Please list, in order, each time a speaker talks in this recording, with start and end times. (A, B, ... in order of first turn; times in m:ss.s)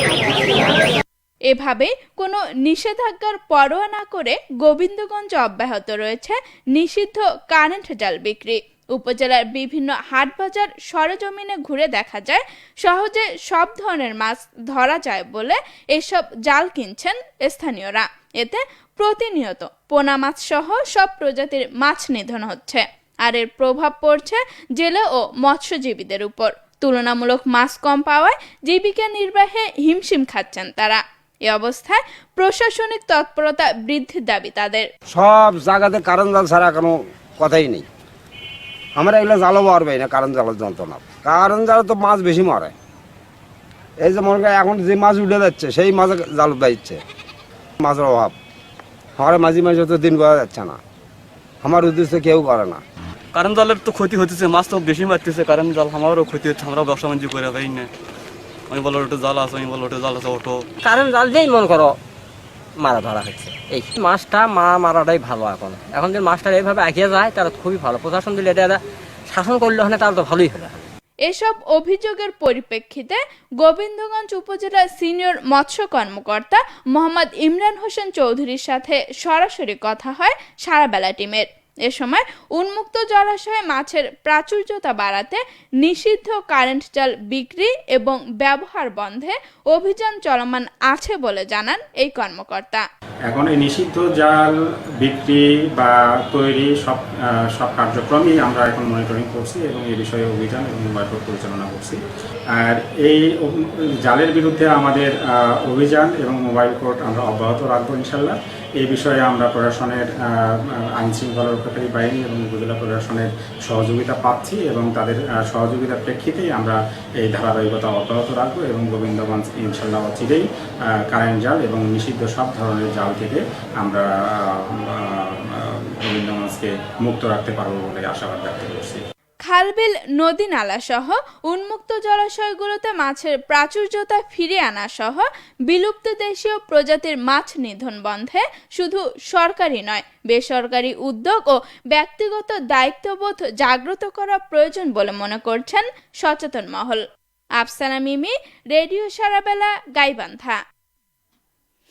0:01.5-0:34.9 A
0:35.1-0:37.8 B
0:39.0-0:42.7 B
0:44.0-0:47.0 B
0:47.8-0:48.3 B
0:49.2-0:50.8 B
0:51.6-0:52.8 B
0:53.3-0:57.9 C
0:58.7-1:00.6 C
1:00.8-1:02.0 D
1:02.8-1:10.9 D
1:11.2-1:32.8 A
1:33.3-1:42.0 E
1:42.6-2:09.0 E
2:09.4-2:27.0 A
2:27.6-2:30.6 A